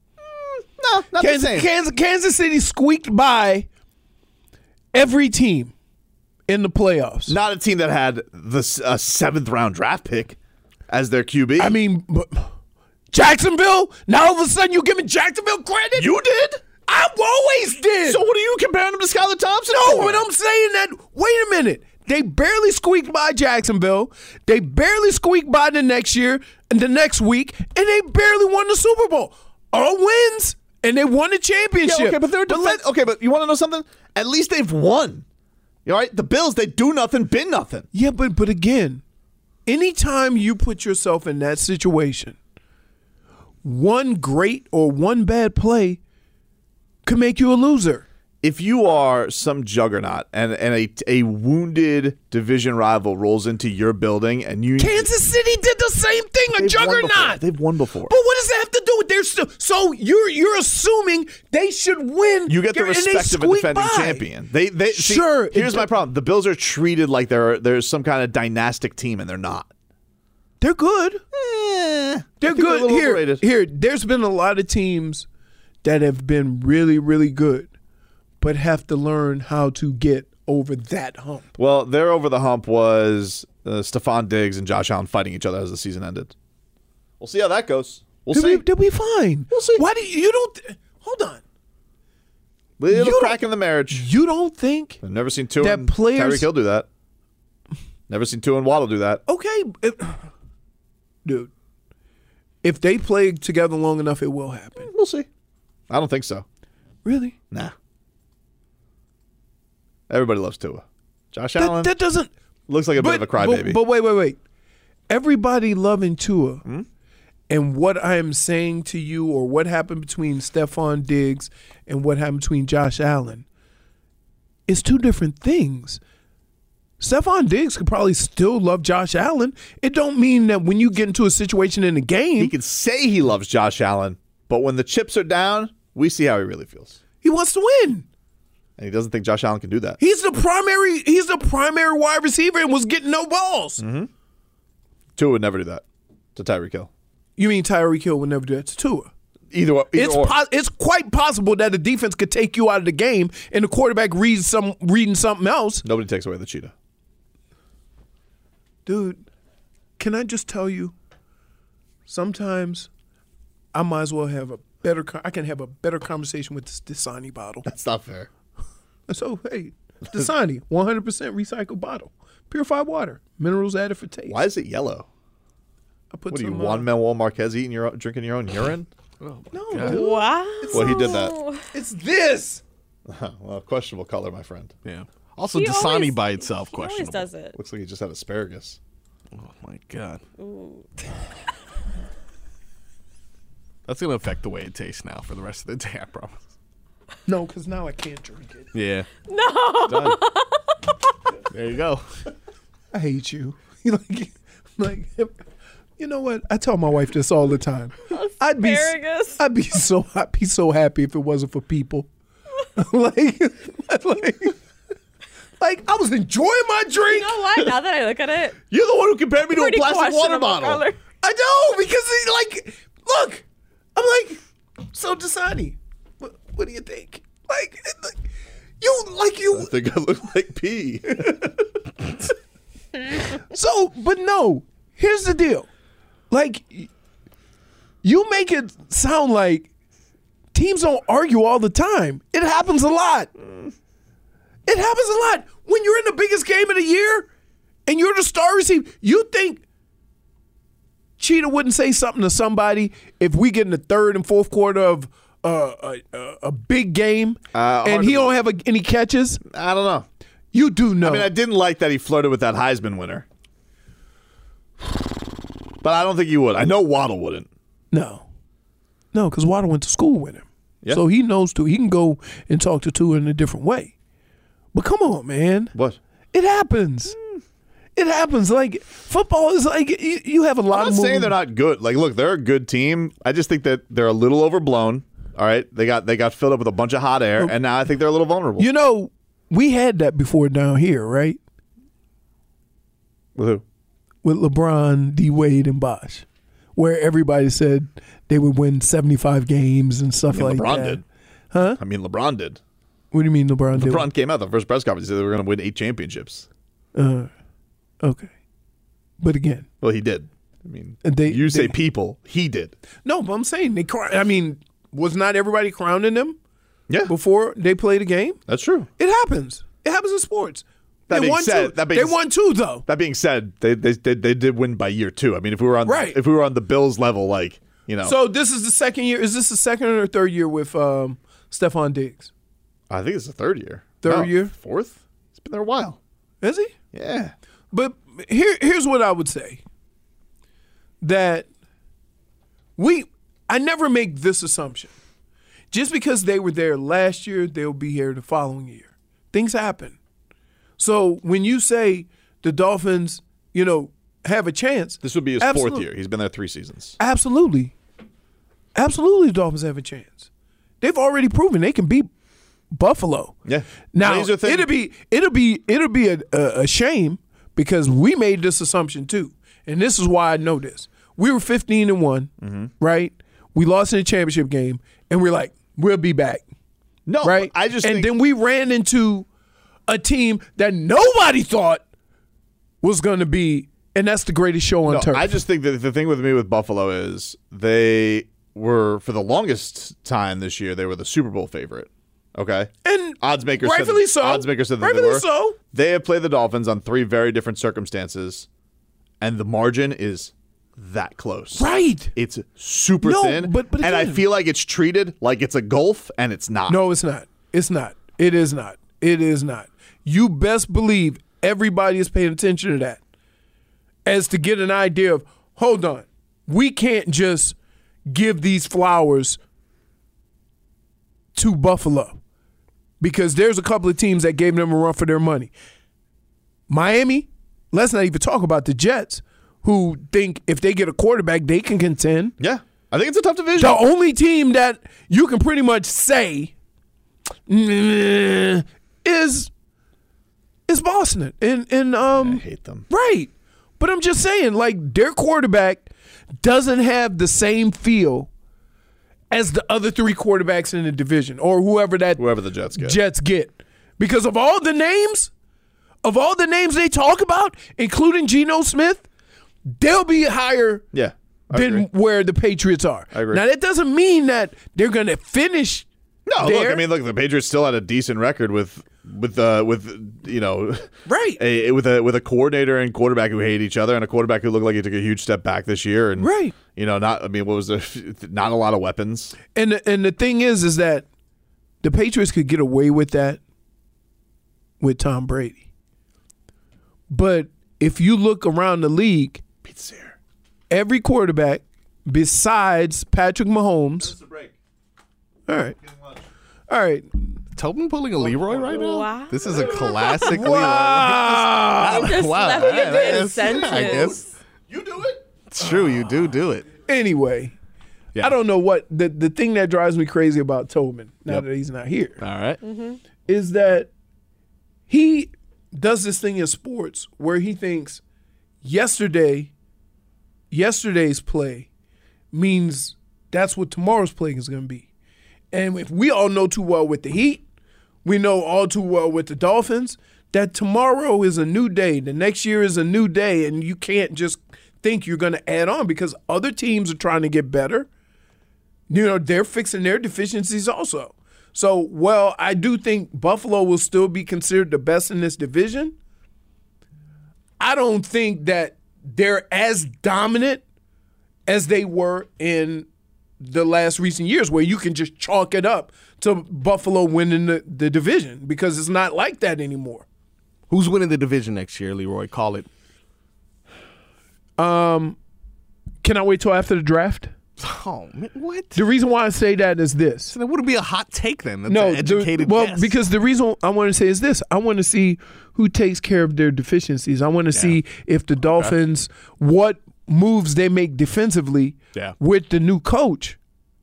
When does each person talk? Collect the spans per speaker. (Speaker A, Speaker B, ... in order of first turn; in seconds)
Speaker A: 0.2-1.7, 7.3-10.4, 10.9-11.8, 15.9-16.6, 18.1-20.2, 31.9-35.2, 35.9-37.9, 48.4-55.1, 56.6-58.1, 62.5-69.7, 71.3-73.4, 81.6-86.3, 87.2-88.6, 89.5-89.8, 92.8-94.1, 95.0-96.9, 98.1-99.2, 104.8-105.3, 105.9-106.5, 110.1-111.9, 112.7-113.8, 132.4-137.0, 138.8-140.0, 143.8-144.1, 145.2-145.8, 146.4-146.9, 149.5-150.4, 155.8-156.7, 167.7-168.3, 174.3-175.1, 176.3-178.9, 180.7-181.3, 183.1-184.7, 187.5-188.8, 199.9-200.2, 218.7-220.8, 229.5-231.2, 257.5-258.4, 259.4-260.1, 261.0-263.2, 265.8-267.5, 275.7-276.0, 280.7-288.7, 293.4-293.6, 300.3-301.0, 301.8-302.6, 303.8-306.5, 309.8-312.8, 318.5-318.9, 321.1-322.2, 322.9-328.2, 332.9-336.0, 336.9-337.3, 355.0-357.0, 363.5-364.7, 372.4-372.7, 377.1-378.1, 384.9-398.5, 399.2-406.8, 432.4-433.8, 442.1-442.9, 452.2-453.0, 460.9-461.9, 463.1-463.4, 466.2-479.4, 489.6-490.2, 494.0-494.5, 503.4-505.2
Speaker B: 1.2-3.7, 4.9-5.7, 6.5-7.4, 11.6-12.5, 13.1-16.1, 16.9-18.2, 19.7-32.8, 37.9-39.0, 39.6-42.4, 43.6-46.0, 47.0-48.0, 54.8-57.4, 58.1-64.2, 64.9-65.9, 70.6-71.2, 72.4-75.2, 75.8-77.7, 78.4-81.5, 88.3-91.4, 92.9-93.4, 93.9-95.0, 95.6-96.5, 99.2-100.3, 101.2-101.5, 102.6-104.9, 107.0-107.4, 111.6-112.3, 113.0-114.4, 115.1-116.6, 117.5-123.5, 124.7-126.0, 127.0-132.5, 137.2-138.1, 140.0-143.8, 147.4-149.1, 149.9-155.8, 158.8-159.2, 160.0-160.9, 162.1-162.9, 163.7-167.7, 169.1-174.4, 176.1-176.9, 179.5-182.6, 197.2-198.7, 202.9-205.3, 206.0-212.1, 212.8-214.6, 215.6-217.7, 221.2-223.4, 223.9-224.4, 224.9-228.2, 228.8-229.7, 231.1-231.7, 233.1-235.7, 236.3-236.9, 238.0-239.7, 240.5-243.3, 244.7-247.3, 247.9-249.6, 251.2-259.4, 260.5-261.3, 267.9-268.2, 269.1-273.9, 274.7-275.7, 276.3-277.2, 278.0-281.4, 288.6-291.4, 294.2-296.2, 296.8-301.0, 301.5-301.8, 303.1-304.1, 306.9-307.3, 308.0-308.3, 309.2-309.7, 311.0-311.8, 313.0-316.4, 317.1-318.4, 319.0-322.9, 325.9-326.2, 328.0-332.3, 334.0-334.5, 336.4-336.7, 337.7-339.6, 341.0-341.5, 342.8-344.9, 345.7-350.0, 350.8-355.9, 357.0-357.8, 358.8-360.3, 360.8-362.1, 362.7-363.4, 363.9-376.4, 377.2-379.3, 379.9-381.8, 382.8-385.4, 392.9-395.6, 401.6-402.1, 403.0-404.2, 406.7-413.0, 414.0-417.5, 418.1-419.4, 421.4-422.2, 423.0-425.5, 426.7-432.4, 433.6-436.5, 437.5-439.5, 440.7-445.9, 446.4-448.3, 449.3-452.2, 452.8-455.3, 456.0-459.0, 459.7-460.9, 461.5-465.9, 466.4-466.9, 471.1-471.4, 476.2-476.5, 479.5-481.1, 481.8-483.4, 484.8-485.6, 487.1-489.4, 490.7-494.1, 495.5-495.8, 496.7-497.1, 500.2-502.3, 506.8-507.5, 508.2-512.2, 513.2-513.9, 514.9-518.0, 518.6-519.5, 520.5-521.7, 522.3-524.9, 525.5-527.4, 528.0-537.9, 538.9-546.0, 547.6-550.6, 551.5-552.9, 553.4-560.0, 564.6-565.2, 566.0-567.3, 568.8-570.4, 571.6-583.4
Speaker C: 179.2-180.0, 184.8-187.3, 189.3-190.2, 193.9-196.4, 198.7-199.1, 201.5-202.0, 497.6-504.3, 505.5-506.7, 512.2-512.6, 560.7-562.7, 567.6-568.8, 570.3-573.0, 577.5-577.8
Speaker D: 179.8-181.6, 185.5-187.6, 190.4-190.9, 199.3-200.8, 208.1-209.4, 217.0-218.6, 219.4-221.0, 498.7-500.3, 501.8-504.2, 512.6-513.0